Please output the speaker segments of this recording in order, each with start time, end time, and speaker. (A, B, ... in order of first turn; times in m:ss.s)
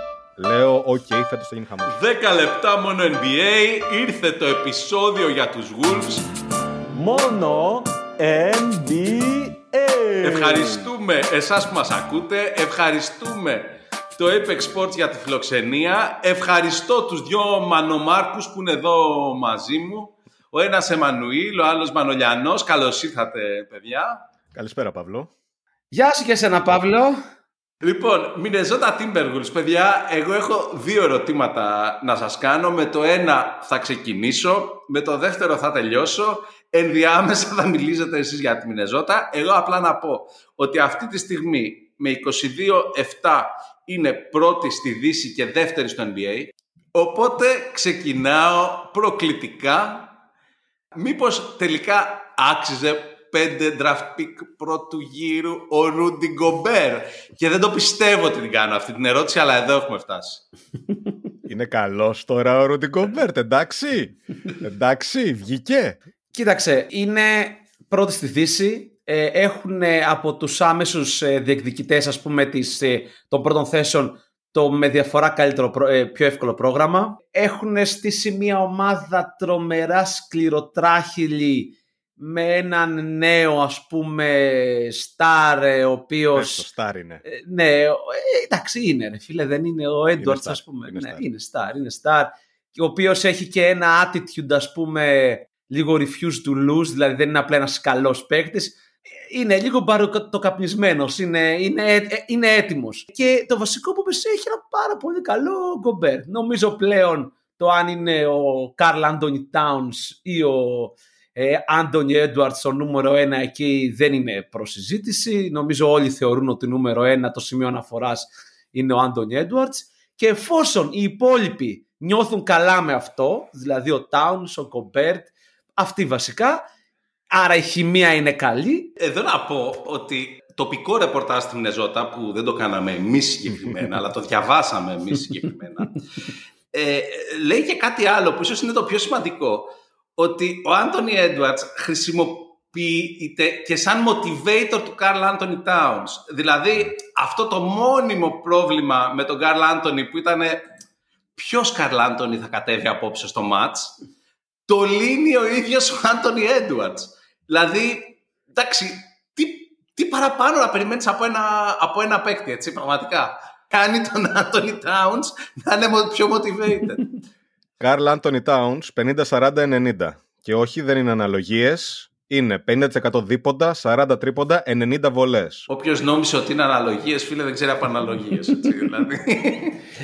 0:00.4-0:02.0 A
0:01.9-0:06.3 B
0:06.9-0:10.9 C
0:10.2-0:24.2 B
0:24.5-0:25.3 A
0:25.9-0:27.2 D
0:27.8-0:50.1 B
0:51.0-1:00.4 B
1:01.4-1:06.0 A
1:06.3-1:26.6 D
1:26.3-1:27.2 A
1:27.2-2:06.6 D
1:30.2-1:31.2 A
2:07.3-2:08.9 D
2:09.0-2:16.0 B
2:16.7-2:30.6 B
2:31.4-2:34.0 B
2:34.7-2:47.2 B
2:47.8-2:55.7 A
2:55.7-2:59.8 B